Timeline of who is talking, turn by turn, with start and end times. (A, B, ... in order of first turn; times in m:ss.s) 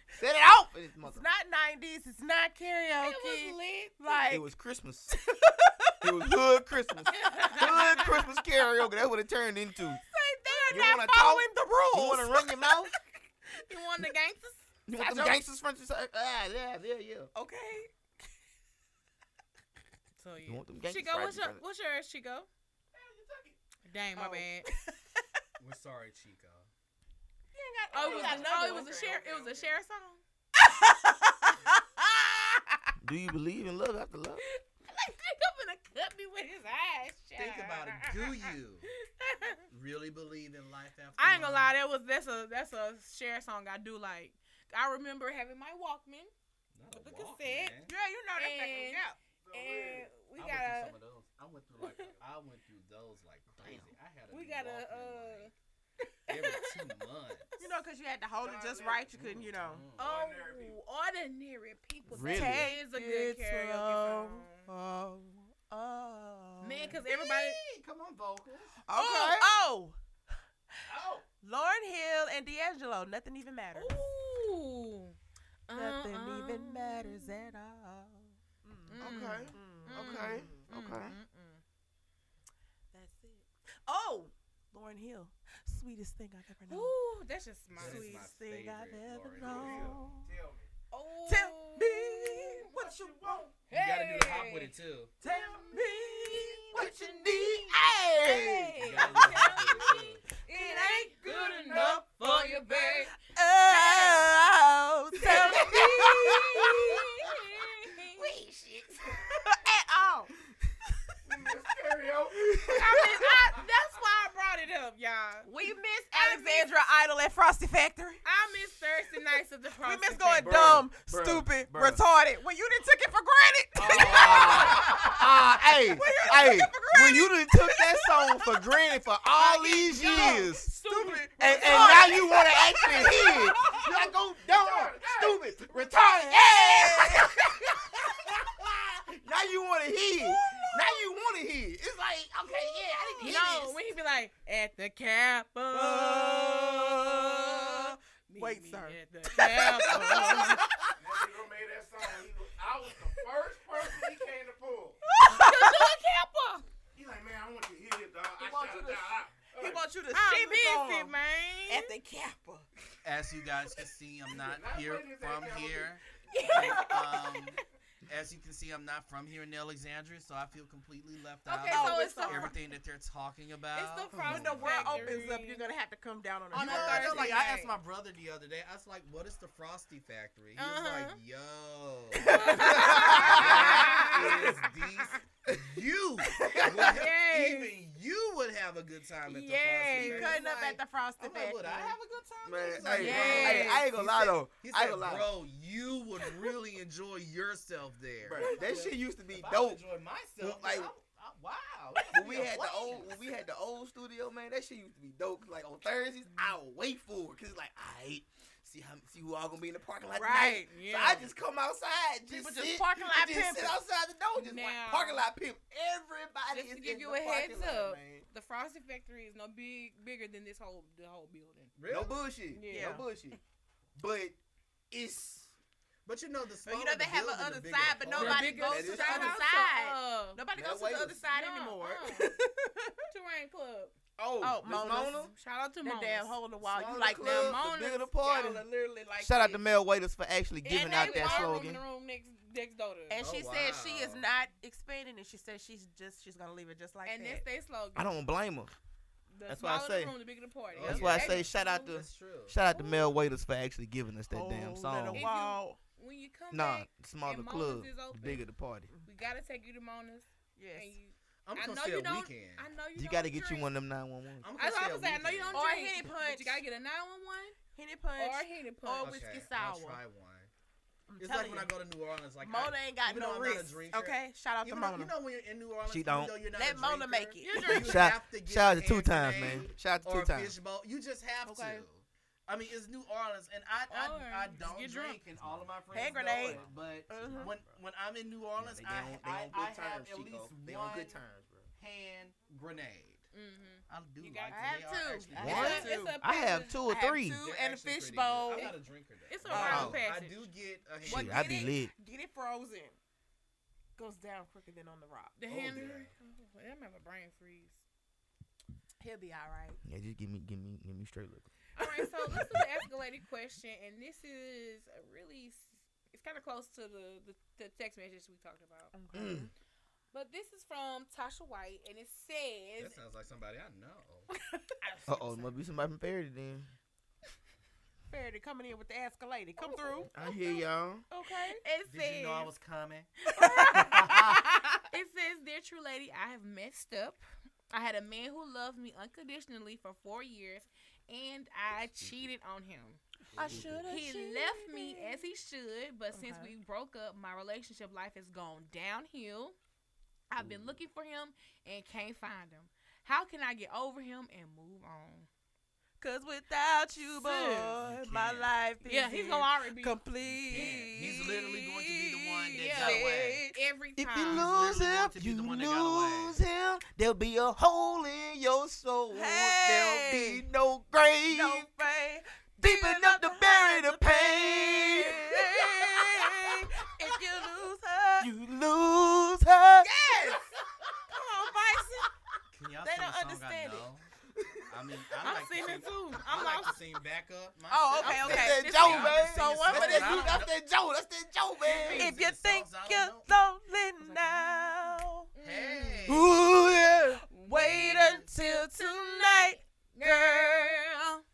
0:00.1-0:01.3 A
0:01.0-0:04.5 B
0:03.0-0:04.2 C
0:04.3-0:05.2 A
0:05.1-0:06.3 B
0:06.0-0:10.0 A
0:07.1-0:08.2 C
0:07.5-0:08.3 B
0:10.0-0:12.8 B
0:10.7-0:13.0 A
0:13.7-0:15.3 C
0:14.9-0:17.3 A
0:17.3-0:18.2 B
0:20.2-0:22.5 C
0:20.5-0:21.6 A
0:23.0-0:23.6 D
0:23.8-0:24.7 C
0:24.2-0:25.2 B
0:25.6-0:26.7 E
0:27.5-0:29.0 B
0:27.9-0:30.2 C
0:28.0-0:28.4 D
0:28.3-0:28.9 E
0:29.0-0:29.6 D
0:30.6-0:32.8 B
0:33.0-0:34.4 A
0:34.4-0:38.5 C
0:37.4-0:38.9 E
0:39.0-0:39.6 C
0:39.7-0:41.8 E
0:41.2-0:46.3 C
0:46.7-0:47.9 E
0:46.9-0:47.8 C
0:47.8-0:49.2 B
0:48.4-0:51.0 C
0:49.4-0:50.2 D
0:50.4-0:55.5 E
0:51.8-0:52.1 C
0:53.6-0:53.9 A
0:54.3-0:55.5 C
0:56.3-0:56.8 C
0:56.3-0:57.5 E
0:57.6-0:59.8 B
0:58.4-0:59.2 D
0:59.1-1:00.1 E
1:00.0-1:00.8 D
1:00.0-1:04.7 C
1:02.1-1:02.7 A
1:02.3-1:07.0 B
1:06.6-1:07.6 C
1:06.9-1:08.8 E
1:08.9-1:09.5 A
1:08.9-1:10.0 B
1:10.8-1:11.2 D
1:11.4-1:14.0 B
1:13.7-1:15.2 C
1:15.7-1:17.5 C
1:15.7-1:20.6 B
1:18.9-1:21.6 C
1:19.0-1:21.2 A
1:22.9-1:26.9 B
1:26.7-1:28.2 C
1:27.8-1:29.9 E
1:27.8-1:30.3 B
1:29.4-1:30.7 D
1:30.9-1:32.7 C
1:31.3-1:33.4 B
1:32.7-1:33.6 D
1:33.7-1:34.7 C
1:33.7-1:35.2 E
1:35.2-1:36.7 B
1:35.3-1:36.2 D
1:36.7-1:38.8 A
1:36.8-1:44.3 C
1:38.8-1:40.2 E
1:39.0-1:46.7 B
1:41.3-1:42.5 E
1:45.2-1:48.3 C
1:45.3-1:47.0 A
1:47.9-1:49.3 A
1:49.2-1:50.3 B
1:51.3-1:53.6 D
1:52.5-1:53.0 A
1:52.6-1:55.5 C
1:55.5-1:58.2 B
1:56.1-1:56.7 C
1:58.2-2:00.8 C
1:59.8-2:08.6 B
2:00.4-2:02.0 A
2:03.8-2:10.7 A
2:03.9-2:05.2 D
2:09.4-2:12.0 C
2:09.4-2:13.9 B
2:10.8-2:16.2 D
2:11.4-2:23.8 A
2:15.9-2:17.3 B
2:20.2-2:20.9 B
2:23.2-2:30.7 C
2:25.7-2:31.0 B
2:31.0-2:35.0 D
2:35.1-2:35.7 B
2:35.2-2:36.7 C
2:37.0-2:39.9 D
2:38.4-2:41.1 B
2:40.1-2:41.9 C
2:41.7-2:42.7 B
2:43.0-2:55.3 E
2:44.3-2:46.0 D
2:46.3-2:47.5 B
2:46.3-2:47.2 C
2:51.5-2:52.5 C
2:51.7-2:52.6 B
2:53.7-2:55.6 C
2:54.1-2:57.3 B
2:56.5-2:57.8 C
2:56.5-3:23.2 E
3:00.6-3:01.2 C
3:02.2-3:05.2 C
3:02.3-3:04.5 B
3:02.3-3:04.1 A
3:05.5-3:07.0 A
3:06.8-3:07.8 C
3:09.3-3:10.4 C
3:10.0-3:12.0 B
3:12.4-3:15.3 A
3:13.0-3:13.6 B
3:13.0-3:13.8 C
3:18.2-3:19.8 A
3:20.4-3:20.9 A
3:22.1-3:38.2 A
3:30.1-3:30.7 B
3:30.6-3:31.3 C
3:32.3-3:33.8 B
3:34.3-3:35.3 C
3:36.5-3:41.7 C
3:41.8-3:42.2 E
3:41.9-3:43.4 A
3:42.5-3:43.0 C
3:42.7-3:43.1 B
3:44.0-3:44.4 A
3:44.9-3:45.5 A
3:46.0-3:49.2 E
3:46.6-3:53.1 B
3:48.2-3:50.4 C
3:48.4-3:49.4 A
3:50.5-3:51.2 A
3:51.3-3:52.3 C
3:53.1-3:54.0 C
3:54.2-3:55.3 A
3:54.4-3:55.1 B
3:54.9-3:56.4 C
3:55.8-3:57.6 B
3:56.6-3:58.7 A
3:57.2-3:58.1 C
3:58.2-3:59.6 B
3:59.2-4:01.8 A
4:00.6-4:01.6 B
4:00.6-4:03.3 C
4:03.1-4:07.4 B
4:03.2-4:04.3 E
4:07.0-4:08.1 C
4:08.0-4:08.8 A
4:09.3-4:11.9 C
4:09.5-4:10.2 A
4:10.7-4:12.6 E
4:10.8-4:15.3 A
4:12.8-4:13.1 B
4:14.3-4:15.8 B
4:15.1-4:18.5 C
4:16.5-4:18.9 A
4:19.0-4:23.7 C
4:20.6-4:21.0 B
4:21.4-4:22.7 E
4:23.0-4:24.5 A
4:24.4-4:25.7 E
4:24.6-4:27.6 C
4:25.5-4:26.6 B
4:27.8-4:30.0 B
4:28.2-4:29.2 C
4:29.0-4:30.5 E
4:31.1-4:31.8 B
4:31.2-4:51.2 E
4:32.4-4:35.1 B
4:35.9-4:36.4 A
4:36.5-4:37.9 B
4:37.4-4:38.1 C
4:37.5-4:40.6 A
4:41.4-4:41.9 B
4:43.9-4:45.2 C
4:45.9-4:47.6 B
4:46.4-4:47.5 A
4:48.6-4:51.7 A
4:51.8-4:53.3 E
4:53.3-4:54.8 C
4:53.9-4:55.9 E
4:54.5-4:56.2 B
4:55.4-4:57.4 A
4:55.4-4:56.9 C
4:56.9-4:58.8 B
4:57.3-5:01.6 E
4:58.5-5:00.5 C
4:59.5-5:00.0 B
4:59.6-5:00.0 A
5:01.0-5:01.9 A
5:01.0-5:03.0 B
5:04.0-5:05.4 B
5:05.4-5:07.8 C
5:05.5-5:06.1 E
5:09.0-5:09.8 B
5:09.8-5:11.5 A
5:11.8-5:18.9 C
5:12.3-5:12.6 A
5:18.9-5:19.5 B
5:19.1-5:19.5 A
5:20.1-5:23.0 C
5:22.8-5:24.3 E
5:24.8-5:25.6 C
5:25.1-5:26.7 A
5:28.1-5:30.1 B
5:29.6-5:30.6 C
5:30.1-5:31.0 A
5:31.1-5:31.6 B
5:31.6-5:32.5 C
5:31.9-5:34.5 E
5:33.3-5:43.0 C
5:33.4-5:34.1 B
5:43.3-5:43.7 E
5:43.3-5:43.8 A
5:43.4-5:45.2 B
5:43.8-5:49.6 C
5:46.1-5:46.5 B
5:50.3-5:55.3 C
5:56.0-6:03.6 B
5:57.0-5:57.8 C
5:57.8-5:58.5 E
5:58.9-6:00.0 C
6:00.2-6:03.4 E
6:02.5-6:04.7 C
6:04.0-6:11.7 A
6:04.2-6:06.4 E
6:09.1-6:10.4 B
6:11.3-6:18.3 B
6:12.6-6:16.7 A
6:18.2-6:20.4 A
6:19.8-6:20.5 B
6:21.1-6:22.1 B
6:22.5-6:24.1 E
6:22.8-6:23.9 B
6:24.3-6:24.9 A
6:24.7-6:30.6 E
6:25.2-6:26.8 C
6:25.2-6:25.8 B
6:27.7-6:30.5 B
6:28.0-6:32.1 A
6:31.6-6:33.3 E
6:31.8-6:35.3 B
6:34.0-6:34.8 C
6:35.3-6:36.2 C
6:35.4-6:36.3 E
6:36.1-6:37.2 A
6:37.3-6:41.2 C
6:37.4-6:40.7 B
6:37.6-6:38.2 E